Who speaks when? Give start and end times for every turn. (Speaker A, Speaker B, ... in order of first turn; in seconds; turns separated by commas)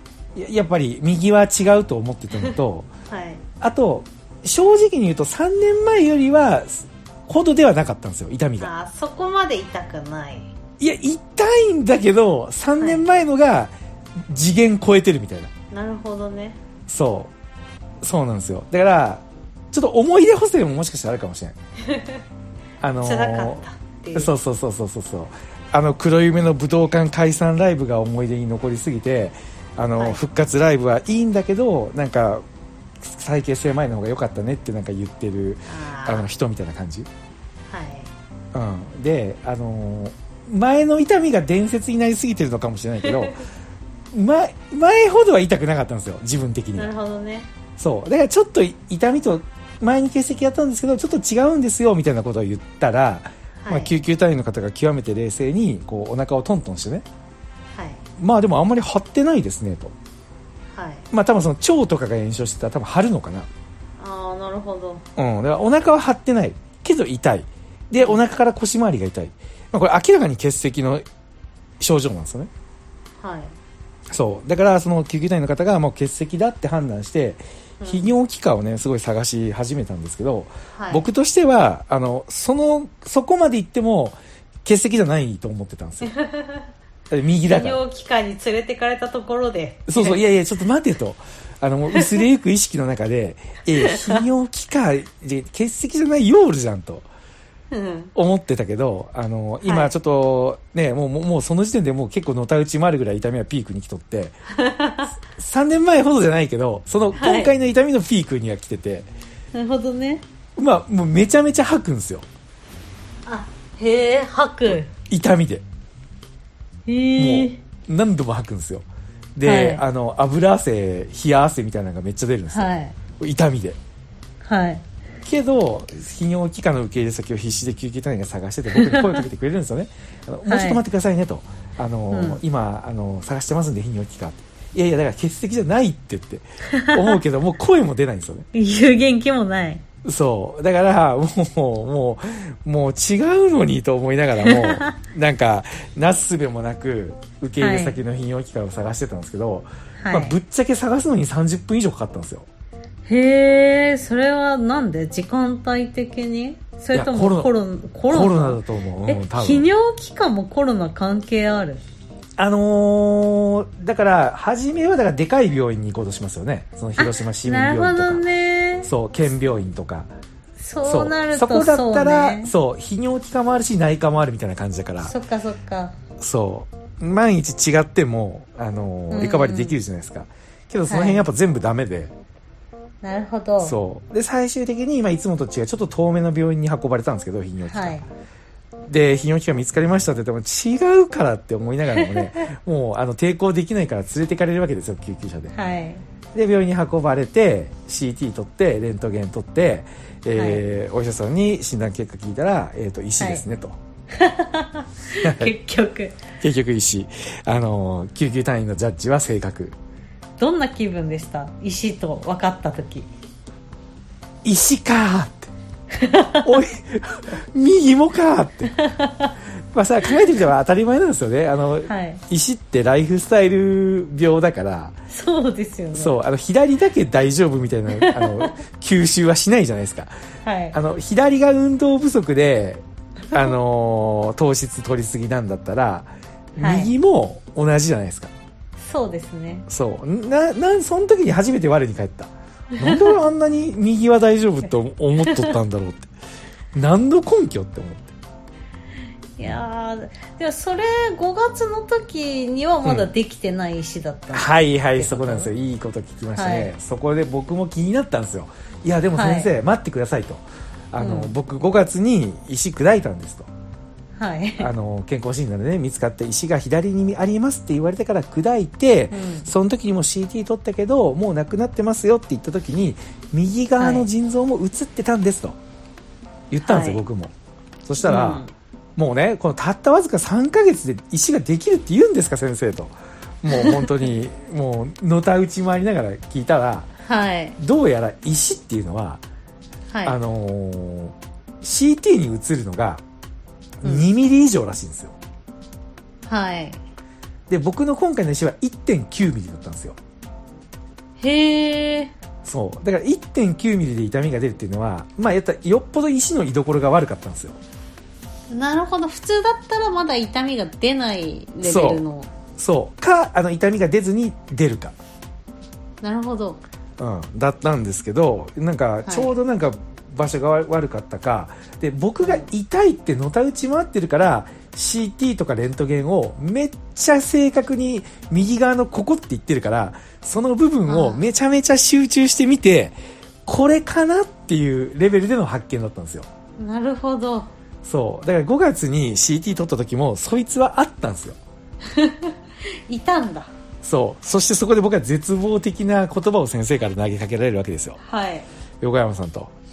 Speaker A: 0.3-2.9, Speaker B: 3.1-3.4, Speaker A: 3.6-8.7, Speaker B: 8.6-10.5, Speaker A: 10.8-15.5, Speaker B: 12.8-13.1, Speaker B: 15.7-16.6, Speaker A: 16.9-17.3, Speaker A: 18.0-21.6, Speaker B: 21.8-22.2, Speaker A: 22.8-23.6, Speaker B: 23.0-24.3, Speaker A: 24.1-32.4, Speaker A: 33.0-37.1, Speaker B: 35.7-36.3, Speaker B: 37.7-38.1, Speaker A: 38.5-43.4, Speaker B: 43.0-43.3, Speaker A: 44.1-46.9, Speaker B: 46.7-47.5, Speaker A: 47.8-57.0, Speaker B: 53.6-53.9, Speaker B: 57.7-58.0, Speaker A: 58.2-59.9, Speaker B: 60.7-61.0, Speaker A: 61.1-63.5, Speaker B: 64.0-65.0, Speaker A: 65.2-71.0, Speaker A: 71.8-72.5, Speaker B: 73.2-73.5, Speaker A: 74.1-86.1, Speaker B: 77.8-78.1, Speaker B: 80.7-81.0, Speaker B: 86.0-86.7, Speaker A: 87.1-87.8, Speaker B: 87.4-90.2, Speaker A: 89.9-97.0, Speaker B: 91.9-92.2, Speaker B: 93.8-94.2, Speaker B: 97.7-98.1, Speaker A: 98.1-104.4, Speaker B: 99.6-99.9, Speaker B: 104.5-105.1, Speaker A: 105.3-109.1, Speaker B: 107.1-107.5, Speaker B: 109.5-110.2, Speaker A: 110.5-112.2, Speaker B: 113.2-114.9, Speaker A: 115.1-115.6, Speaker B: 116.9-117.6, Speaker A: 117.2-123.8, Speaker B: 119.4-119.8, Speaker B: 122.5-123.0, Speaker B: 124.4-124.8, Speaker A: 125.2-138.5, Speaker B: 128.7-129.2, Speaker B: 130.4-130.8, Speaker B: 132.1-132.4, Speaker B: 136.7-137.2, Speaker B: 138.5-139.8, Speaker A: 140.0-152.5, Speaker B: 144.4-145.0, Speaker B: 147.6-148.0, Speaker B: 150.0-150.3, Speaker B: 153.1-161.8, Speaker A: 156.9-157.5, Speaker A: 158.1-159.7, Speaker A: 162.4-168.2, Speaker B: 167.0-168.9, Speaker A: 168.8-170.1, Speaker B: 170.6-172.5, Speaker A: 170.8-175.1, Speaker B: 175.0-175.9, Speaker A: 176.2-182.1, Speaker B: 179.1-179.8, Speaker B: 180.9-181.2, Speaker B: 183.0-183.8, Speaker A: 183.6-188.0, Speaker B: 187.6-188.1, Speaker A: 188.9-195.5, Speaker B: 191.9-192.4, Speaker B: 195.5-196.0, Speaker A: 196.3-203.8, Speaker B: 200.3-200.6, Speaker B: 203.2-203.4, Speaker B: 204.1-206.2, Speaker A: 205.2-205.5, Speaker A: 206.4-209.7, Speaker B: 210.4-213.1, Speaker A: 214.4-215.5, Speaker B: 215.9-216.6, Speaker A: 216.4-218.7, Speaker B: 218.7-219.3, Speaker A: 219.7-224.9, Speaker B: 221.9-222.2, Speaker B: 225.1-226.2, Speaker A: 225.9-230.1, Speaker B: 227.9-228.6, Speaker B: 230.4-230.7, Speaker A: 230.7-238.3, Speaker B: 236.6-236.9, Speaker B: 238.8-239.7, Speaker A: 239.7-246.1, Speaker B: 242.8-243.2, Speaker A: 246.7-248.1, Speaker B: 249.4-255.5, Speaker A: 252.8-253.1, Speaker A: 254.3-263.5, Speaker B: 256.3-256.7, Speaker B: 259.1-259.5, Speaker B: 261.0-261.3, Speaker B: 264.2-264.7, Speaker A: 264.6-275.6, Speaker B: 269.1-269.5, Speaker B: 273.8-274.1, Speaker A: 276.5-277.3, Speaker B: 276.6-277.0, Speaker A: 277.8-278.4, Speaker B: 278.0-278.5, Speaker A: 278.9-286.9, Speaker B: 283.5-283.9, Speaker B: 287.0-287.6, Speaker A: 287.6-289.2, Speaker B: 289.9-290.2, Speaker A: 290.0-293.0, Speaker A: 293.8-295.1, Speaker B: 296.3-296.8, Speaker A: 297.5-300.0, Speaker B: 301.2-302.1, Speaker A: 302.4-307.6, Speaker B: 308.5-312.3, Speaker A: 311.6-312.0, Speaker A: 312.6-314.9, Speaker B: 316.0-316.6, Speaker A: 317.0-336.3, Speaker B: 319.1-319.3, Speaker B: 322.2-322.5, Speaker B: 330.9-331.2, Speaker B: 336.6-337.5, Speaker A: 337.8-341.4, Speaker B: 341.8-342.3, Speaker B: 342.9-343.5, Speaker A: 343.8-348.0, Speaker B: 348.0-348.5, Speaker A: 348.8-349.5